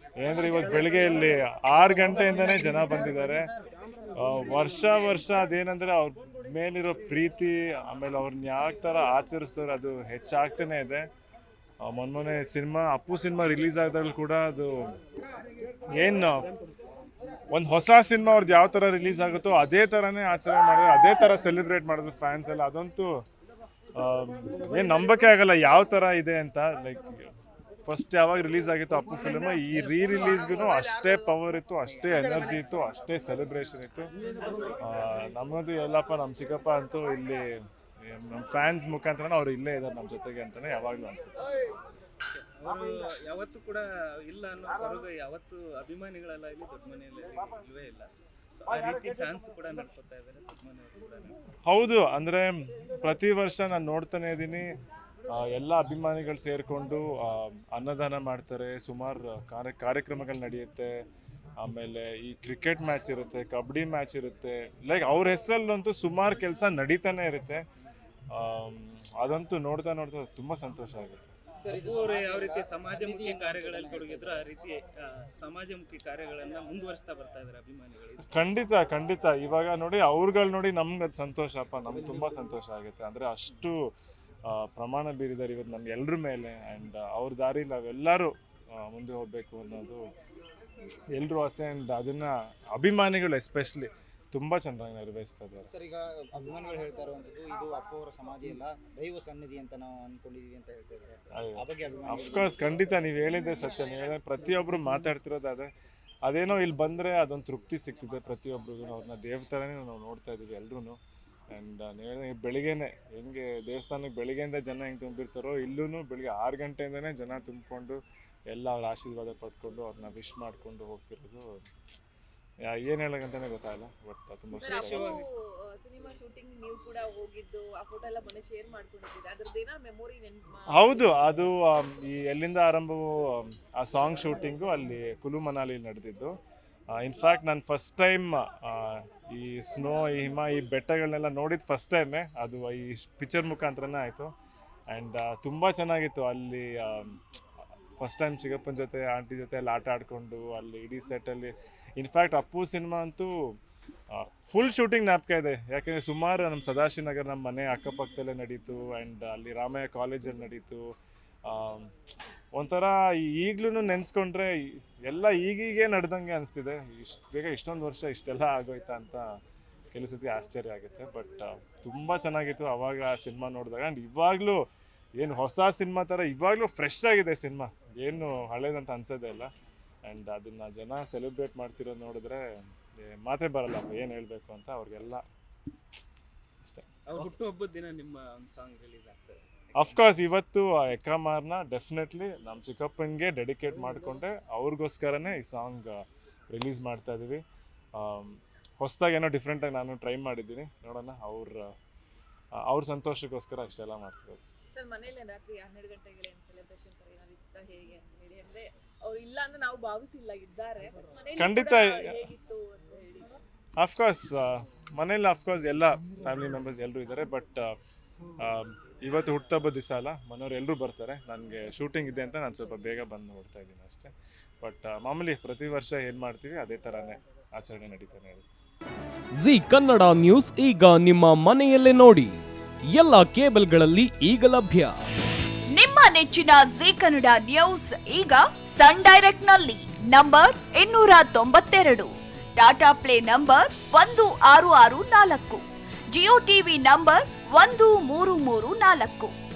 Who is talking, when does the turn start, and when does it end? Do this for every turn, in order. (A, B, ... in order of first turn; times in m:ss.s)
0:00.2-0:03.5 A
0:04.2-0:11.0 A
0:11.8-0:14.9 A
0:15.9-0:16.5 A
0:17.5-0:23.1 A
0:24.0-0:27.3 A
0:27.8-0:34.1 A
0:34.8-0:37.5 A
0:38.0-0:41.5 A
0:42.4-0:48.1 B
0:48.7-0:51.4 B
0:51.6-0:54.7 A
0:55.3-1:00.9 A
1:01.6-1:07.6 A
1:08.3-1:11.3 A
1:11.6-1:14.5 C
1:11.9-1:14.8 B
1:15.4-1:18.3 B
1:18.2-1:23.8 A
1:24.5-1:30.0 A
1:31.1-1:35.7 A
1:35.7-1:42.6 C
1:41.4-1:45.7 A
1:46.2-1:51.0 A
1:51.5-2:01.5 A
2:02.7-2:05.2 A
2:04.6-2:11.2 D
2:04.8-2:05.1 B
2:10.7-2:16.3 A
2:16.9-2:24.3 A
2:24.9-2:27.2 A
2:28.0-2:33.3 A
2:34.1-2:40.8 A
2:41.4-2:41.9 A
2:42.6-2:49.3 A
2:49.9-2:54.6 A
2:55.2-2:59.5 A
3:00.1-3:02.4 A
3:03.0-3:05.2 A
3:07.1-3:09.5 B
3:09.8-3:17.4 A
3:18.0-3:21.7 A
3:22.6-3:24.4 A
3:24.7-3:33.4 D
3:31.4-3:32.3 A
3:33.8-3:37.8 A
3:38.4-3:48.5 A
3:49.4-3:55.0 E
3:55.7-4:09.3 F